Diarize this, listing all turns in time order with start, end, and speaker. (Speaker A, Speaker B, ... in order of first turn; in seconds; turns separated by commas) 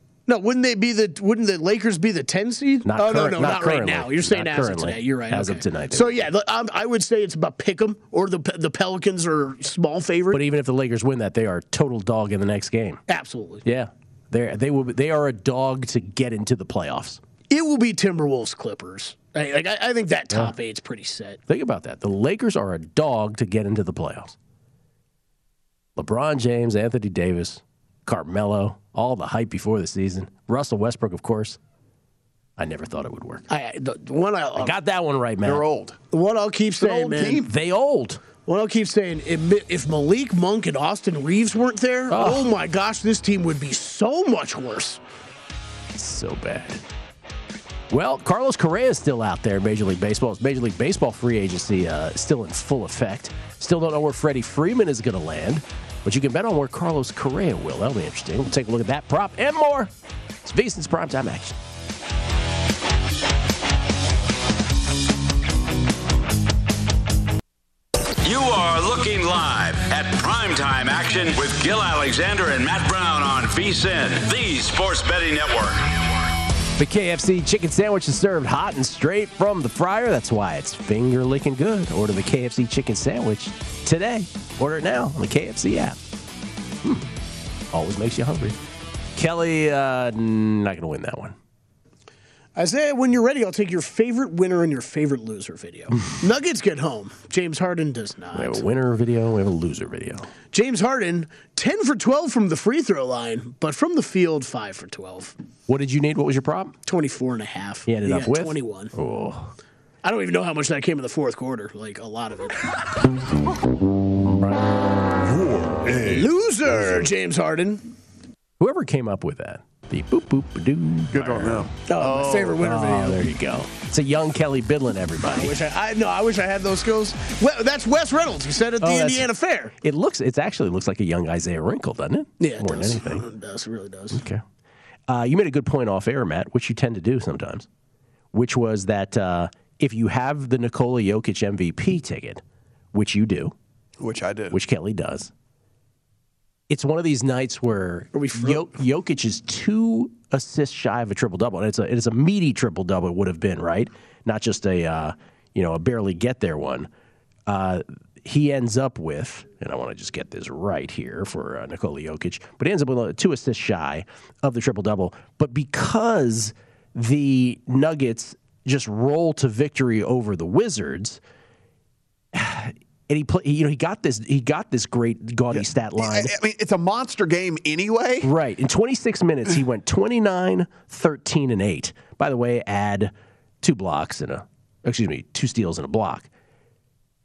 Speaker A: 0.3-10.4, Speaker B: 2.8-6.2, Speaker B: 10.3-13.0, Speaker A: 13.1-13.6, Speaker B: 13.6-17.2, Speaker A: 17.5-21.4, Speaker B: 21.5-24.3, Speaker B: 25.9-31.6, Speaker B: 32.6-33.4, Speaker A: 33.5-34.8, Speaker B: 34.6-35.6, Speaker C: 35.4-36.0, Speaker A: 36.1-37.4, Speaker C: 36.8-37.5, Speaker B: 37.4-38.2, Speaker A: 38.5-45.0, Speaker B: 42.1-42.5, Speaker B: 46.0-46.8, Speaker B: 47.9-59.9, Speaker B: 60.4-61.5, Speaker D: 68.2-76.2, Speaker B: 76.8-86.0, Speaker B: 86.8-87.1, Speaker B: 87.7-88.6, Speaker B: 89.2-91.3, Speaker A: 92.5-98.6, Speaker B: 98.3-100.3, Speaker A: 100.5-105.3, Speaker B: 105.7-106.7, Speaker A: 106.8-108.9, Speaker B: 107.8-109.5, Speaker A: 110.0-113.0, Speaker B: 114.2-114.7, Speaker B: 115.5-116.2, Speaker A: 116.0-117.8, Speaker B: 118.6-121.7, Speaker C: 121.1-122.6, Speaker A: 121.9-123.2, Speaker B: 122.4-125.5, Speaker A: 125.3-129.7, Speaker B: 128.8-129.2, Speaker B: 129.8-133.2, Speaker A: 132.4-134.2, Speaker B: 134.1-134.4, Speaker B: 135.1-137.7, Speaker B: 138.3-142.4, Speaker B: 142.9-143.5, Speaker C: 144.0-144.6, Speaker B: 144.5-145.3, Speaker B: 146.7-156.9, Speaker A: 148.1-148.7, Speaker B: 157.5-171.2, Speaker B: 172.3-176.3, Speaker C: 175.5-178.3, Speaker B: 178.2-186.3